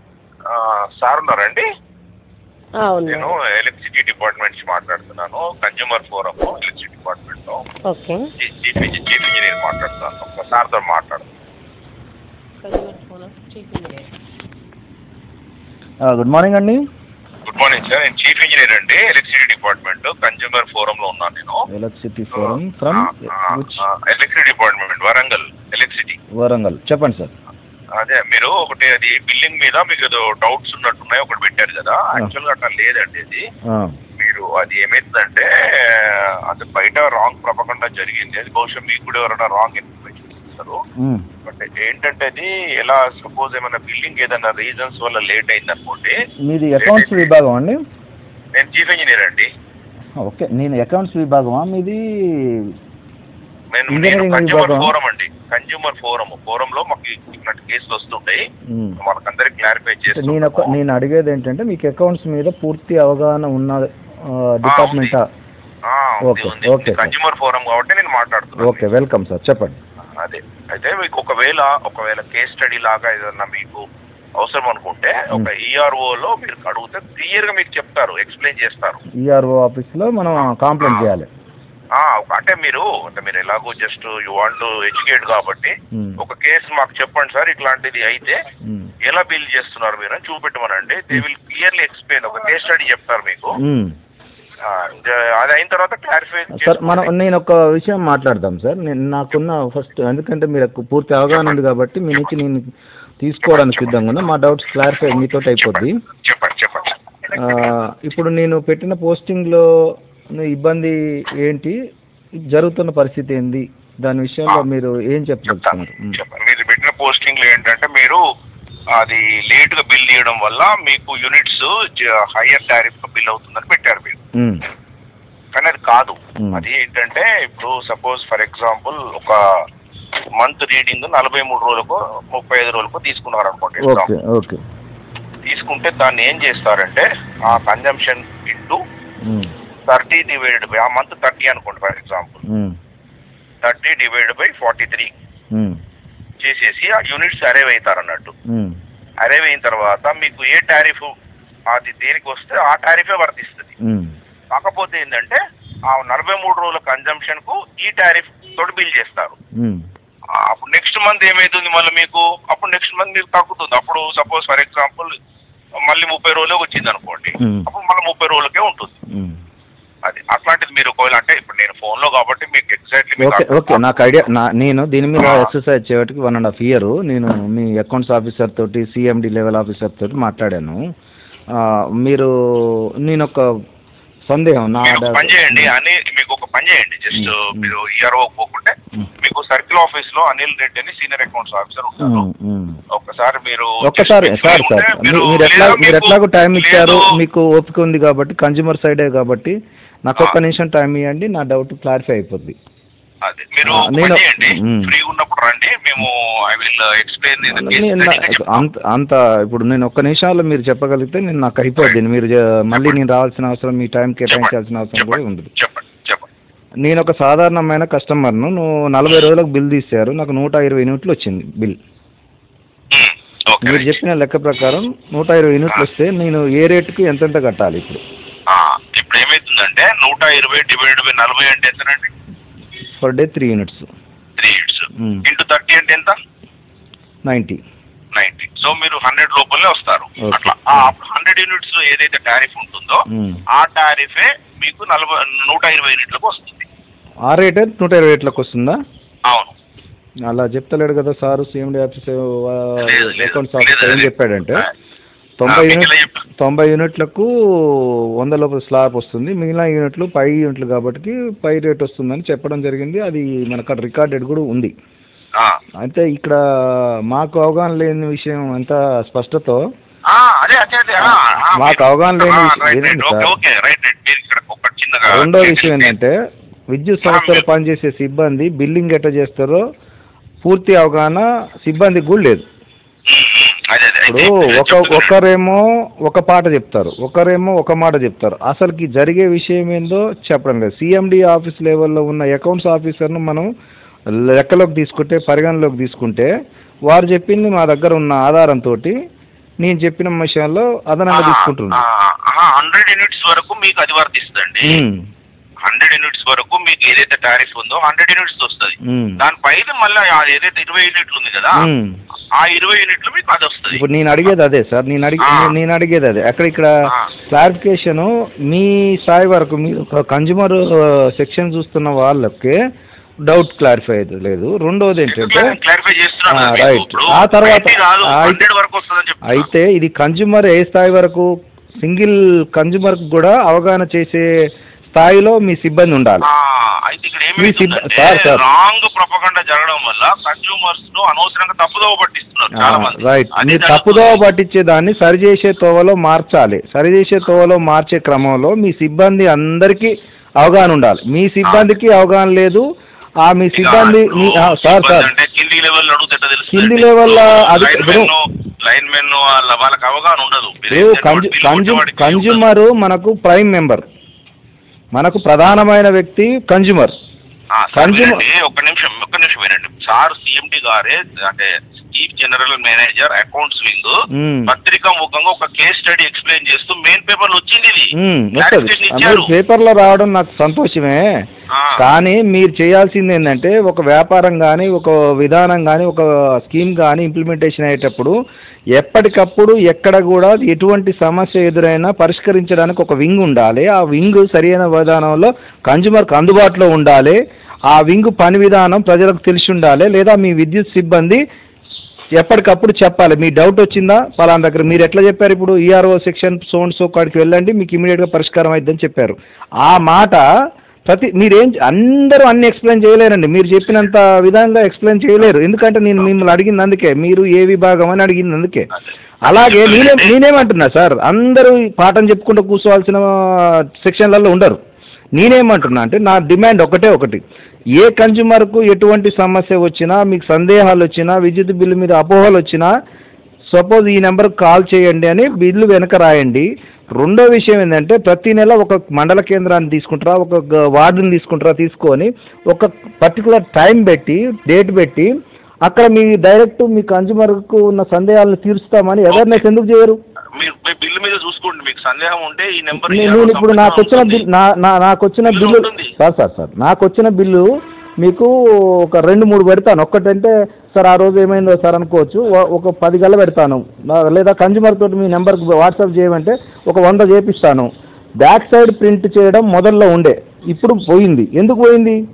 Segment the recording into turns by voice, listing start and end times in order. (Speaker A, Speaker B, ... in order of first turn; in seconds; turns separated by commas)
Speaker A: 0.5-1.6, Speaker B: 2.8-3.4, Speaker A: 3.1-7.6, Speaker B: 7.8-8.2, Speaker A: 8.4-11.2, Speaker B: 12.6-14.1, Speaker C: 16.0-16.8, Speaker A: 17.4-21.6, Speaker C: 21.7-23.8, Speaker A: 22.3-26.2, Speaker C: 26.4-27.3, Speaker A: 27.9-33.4, Speaker A: 34.2-40.8, Speaker A: 41.4-46.1, Speaker C: 46.5-47.8, Speaker A: 46.8-47.3, Speaker A: 48.5-49.5, Speaker C: 50.2-52.7, Speaker A: 53.7-58.4, Speaker C: 53.9-54.9, Speaker C: 58.7-59.0, Speaker A: 59.0-60.8, Speaker C: 60.1-65.2, Speaker A: 64.6-65.2, Speaker A: 65.9-68.8, Speaker C: 66.2-67.1, Speaker C: 68.6-69.8, Speaker A: 70.2-73.8, Speaker A: 74.4-79.0, Speaker C: 79.2-81.3, Speaker A: 80.4-81.1, Speaker A: 82.0-88.4, Speaker C: 85.9-86.2, Speaker A: 89.0-93.6, Speaker C: 93.6-93.9, Speaker A: 94.6-97.1, Speaker C: 96.5-102.7, Speaker A: 101.3-101.6, Speaker C: 103.2-105.9, Speaker A: 103.4-104.2, Speaker A: 105.6-107.5, Speaker C: 107.3-109.7, Speaker C: 110.3-111.7, Speaker C: 112.5-116.2, Speaker A: 115.5-118.2, Speaker A: 119.0-124.2, Speaker C: 124.4-124.6, Speaker A: 125.5-129.4, Speaker A: 130.4-134.1, Speaker C: 133.8-134.6, Speaker A: 135.4-138.8, Speaker C: 139.2-139.5, Speaker A: 139.9-142.4, Speaker C: 142.5-142.7, Speaker A: 143.6-145.1, Speaker C: 145.5-145.8, Speaker A: 146.4-148.3, Speaker C: 148.5-148.8, Speaker A: 149.2-151.1, Speaker A: 151.7-153.7, Speaker C: 153.8-154.1, Speaker A: 154.5-159.3, Speaker A: 160.5-165.1, Speaker A: 165.9-169.0, Speaker C: 167.4-167.7, Speaker A: 170.1-173.8, Speaker C: 173.2-180.8, Speaker A: 175.2-175.5, Speaker C: 181.6-183.5, Speaker C: 184.3-185.7, Speaker A: 184.8-192.3, Speaker C: 187.1-187.7, Speaker C: 192.0-192.8, Speaker A: 192.9-197.1, Speaker C: 193.8-199.5, Speaker C: 200.0-202.6, Speaker A: 203.2-208.6, Speaker C: 203.6-204.9, Speaker C: 207.4-215.5, Speaker A: 212.7-213.0, Speaker A: 214.3-216.3, Speaker C: 216.8-221.8, Speaker A: 222.9-224.0, Speaker C: 223.6-228.0, Speaker A: 228.5-232.1, Speaker C: 233.0-233.8, Speaker A: 234.4-236.1, Speaker C: 235.0-235.2, Speaker C: 237.3-237.6, Speaker A: 238.1-246.7, Speaker C: 240.2-240.9, Speaker C: 243.1-243.4, Speaker C: 247.3-248.8, Speaker A: 249.3-249.5, Speaker C: 250.3-254.7, Speaker A: 252.8-254.7, Speaker C: 255.4-264.7, Speaker A: 255.4-256.2, Speaker C: 265.8-269.6, Speaker A: 270.1-275.9, Speaker C: 271.0-273.3, Speaker C: 275.1-276.1, Speaker C: 276.7-279.6, Speaker A: 277.0-277.4, Speaker C: 280.4-282.4, Speaker A: 283.1-285.1, Speaker C: 284.1-293.5, Speaker C: 294.3-296.3, Speaker C: 296.9-298.9, Speaker C: 299.6-301.8, Speaker A: 301.1-304.8, Speaker C: 304.6-305.0, Speaker A: 305.6-311.7, Speaker C: 308.9-309.2, Speaker C: 311.6-312.0, Speaker A: 312.4-313.8, Speaker C: 313.7-316.7, Speaker A: 315.2-315.5, Speaker C: 317.3-322.5, Speaker C: 323.2-325.6, Speaker A: 325.0-329.5, Speaker C: 326.3-328.4, Speaker C: 329.2-331.3, Speaker C: 331.8-334.3, Speaker C: 334.9-336.2, Speaker A: 336.2-344.2, Speaker C: 337.4-338.4, Speaker C: 342.5-352.6, Speaker A: 351.4-351.7, Speaker C: 353.2-355.1, Speaker A: 353.5-362.4, Speaker C: 356.5-358.1, Speaker C: 360.7-363.8, Speaker C: 364.9-366.9, Speaker A: 367.5-373.9, Speaker C: 367.7-368.2, Speaker C: 374.1-374.5, Speaker A: 374.4-379.3, Speaker C: 378.0-381.1, Speaker A: 381.5-381.8, Speaker C: 381.8-388.1, Speaker C: 388.8-397.2, Speaker C: 397.7-401.2, Speaker C: 402.2-410.2, Speaker C: 410.9-418.7, Speaker C: 419.2-424.6, Speaker A: 419.2-420.1, Speaker C: 425.1-427.2, Speaker C: 427.8-432.7, Speaker C: 433.5-445.1, Speaker C: 445.6-450.0, Speaker A: 449.1-449.4, Speaker A: 450.4-454.2, Speaker C: 452.7-457.5, Speaker A: 455.2-455.9, Speaker C: 458.0-467.7, Speaker C: 468.2-472.0